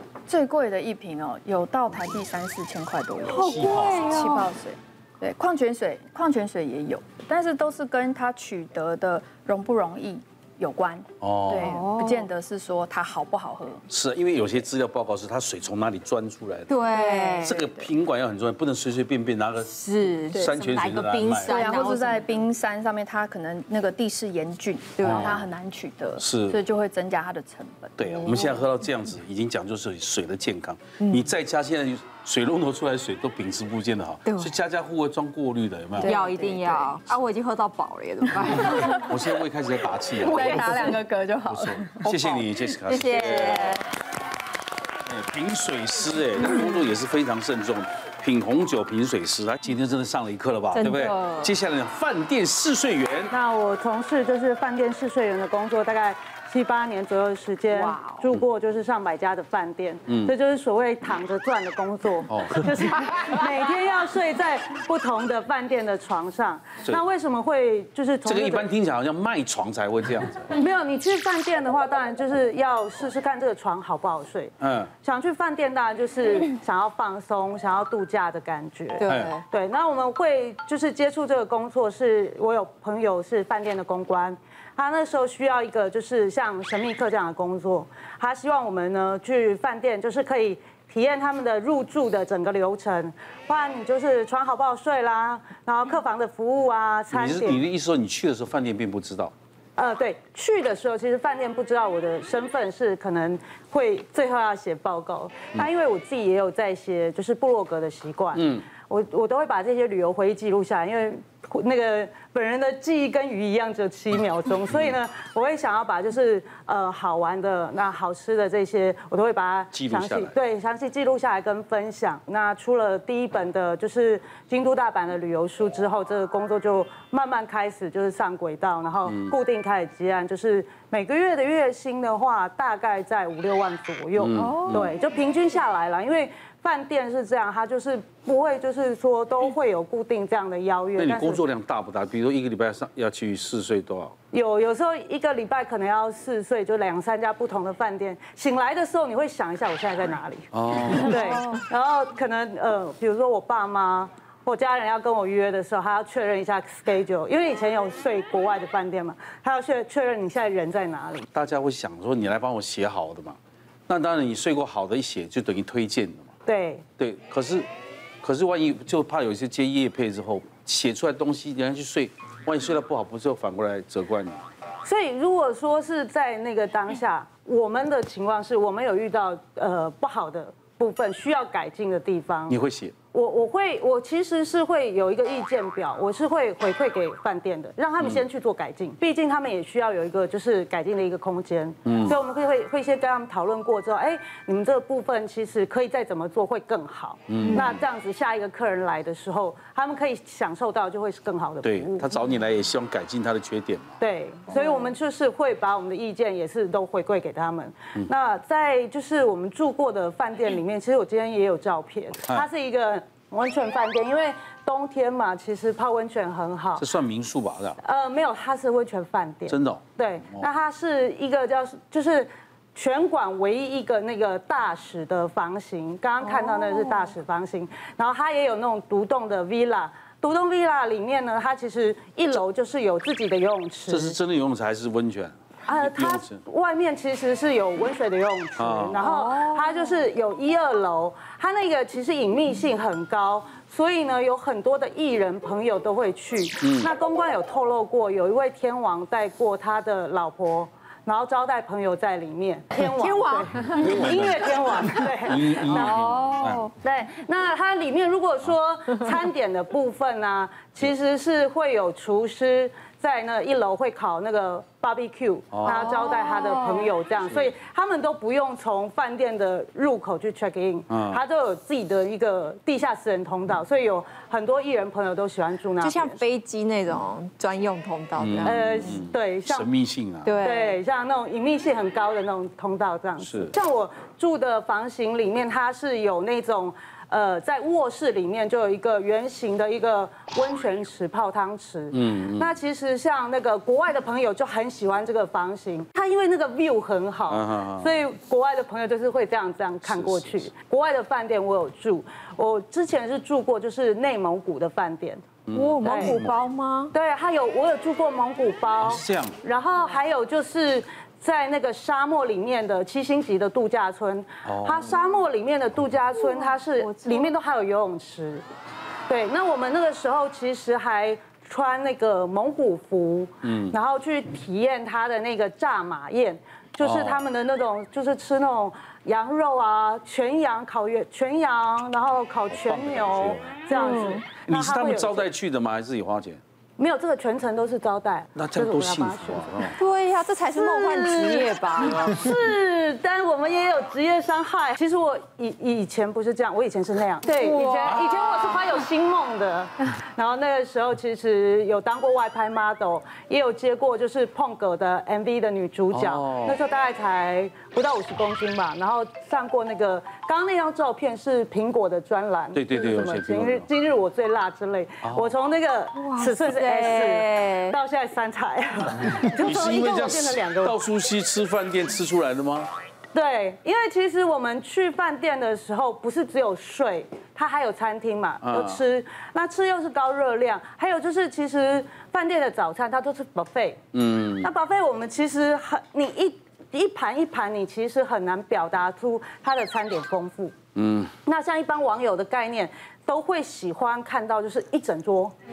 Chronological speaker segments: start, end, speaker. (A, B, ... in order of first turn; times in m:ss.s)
0:00.3-0:13.8 A
0:03.3-0:04.5 B
0:03.3-0:04.3 C
0:11.2-0:11.8 C
0:11.5-0:12.3 B
0:13.9-0:16.8 C
0:16.7-0:17.6 B
0:16.9-0:17.9 A
0:17.4-0:21.7 C
0:19.7-0:22.4 B
0:21.4-0:28.6 A
0:25.0-0:25.4 B
0:25.0-0:25.4 C
0:26.2-0:26.6 C
0:28.0-0:36.2 C
0:34.3-0:34.5 B
0:36.0-0:36.9 A
0:36.0-0:39.2 B
0:38.4-0:39.0 A
0:38.6-0:40.8 C
0:40.0-0:42.7 A
0:40.4-0:41.0 B
0:41.5-0:43.8 C
0:42.9-0:43.9 B
0:45.1-0:53.3 C
0:50.7-0:51.5 B
0:53.3-1:08.7 D
0:57.7-0:58.3 B
1:00.1-1:00.3 C
1:02.3-1:02.7 C
1:08.2-1:10.5 C
1:10.5-1:37.6 D
1:14.6-1:14.9 C
1:19.0-1:19.4 B
1:19.1-1:19.4 C
1:37.1-1:39.3 C
1:39.8-2:21.4 D
1:48.4-1:48.7 C
1:59.7-2:00.4 C
2:09.1-2:09.3 C
2:14.2-2:14.9 C
2:14.4-2:14.9 B
2:21.0-2:24.1 C
2:24.3-2:41.3 D
2:30.5-2:31.4 C
2:41.3-2:43.4 C
2:43.9-2:46.3 C
2:46.5-2:46.8 D
2:47.0-2:47.7 C
2:48.2-2:54.4 C
2:54.8-3:02.6 D
3:02.5-3:03.0 C
3:03.1-3:22.1 D
3:08.0-3:08.2 C
3:11.8-3:12.2 C
3:17.3-3:17.8 C
3:21.6-3:23.9 C
3:24.0-3:36.9 D
3:36.8-3:37.8 C
3:37.8-3:54.2 D
3:39.5-3:40.5 C
3:46.2-3:47.1 B
3:53.9-3:56.4 C
3:55.7-4:16.0 D
3:58.6-3:59.0 C
3:59.0-4:00.0 B
4:06.6-4:06.9 C
4:12.7-4:16.7 B
4:13.8-4:16.7 C
4:16.8-4:36.2 D
4:25.5-4:26.0 C
4:25.7-4:26.9 B
4:30.9-4:31.2 C
4:35.8-4:39.0 B
4:38.2-4:40.4 C
4:38.4-4:39.7 D
4:40.2-4:40.8 B
4:40.4-5:05.3 D
4:43.2-4:43.5 C
4:51.9-4:52.5 C
4:57.3-4:58.0 C
4:59.8-5:00.5 C
5:05.5-5:06.4 C
5:05.6-5:06.9 B
5:05.8-5:06.3 D
5:06.9-5:18.5 D
5:08.8-5:09.4 C
5:14.4-5:14.9 C
5:16.3-5:17.3 B
5:19.1-5:35.3 D
5:23.4-5:23.8 C
5:26.8-5:27.2 C
5:32.5-5:33.7 C
5:33.7-5:34.3 B
5:34.5-5:36.4 C
5:36.8-5:39.8 D
5:38.4-5:39.8 C
5:39.8-5:42.4 B
5:40.5-6:10.8 D
5:47.2-5:48.8 B
5:47.8-5:48.1 C
5:55.9-5:56.6 C
6:02.6-6:03.7 C
6:05.0-6:05.3 C
6:06.0-6:07.8 B
6:09.3-6:12.7 C
6:13.1-6:23.8 D
6:18.4-6:18.8 C
6:23.9-6:24.5 C
6:24.4-6:30.5 D
6:30.8-6:31.1 C
6:31.3-6:35.4 D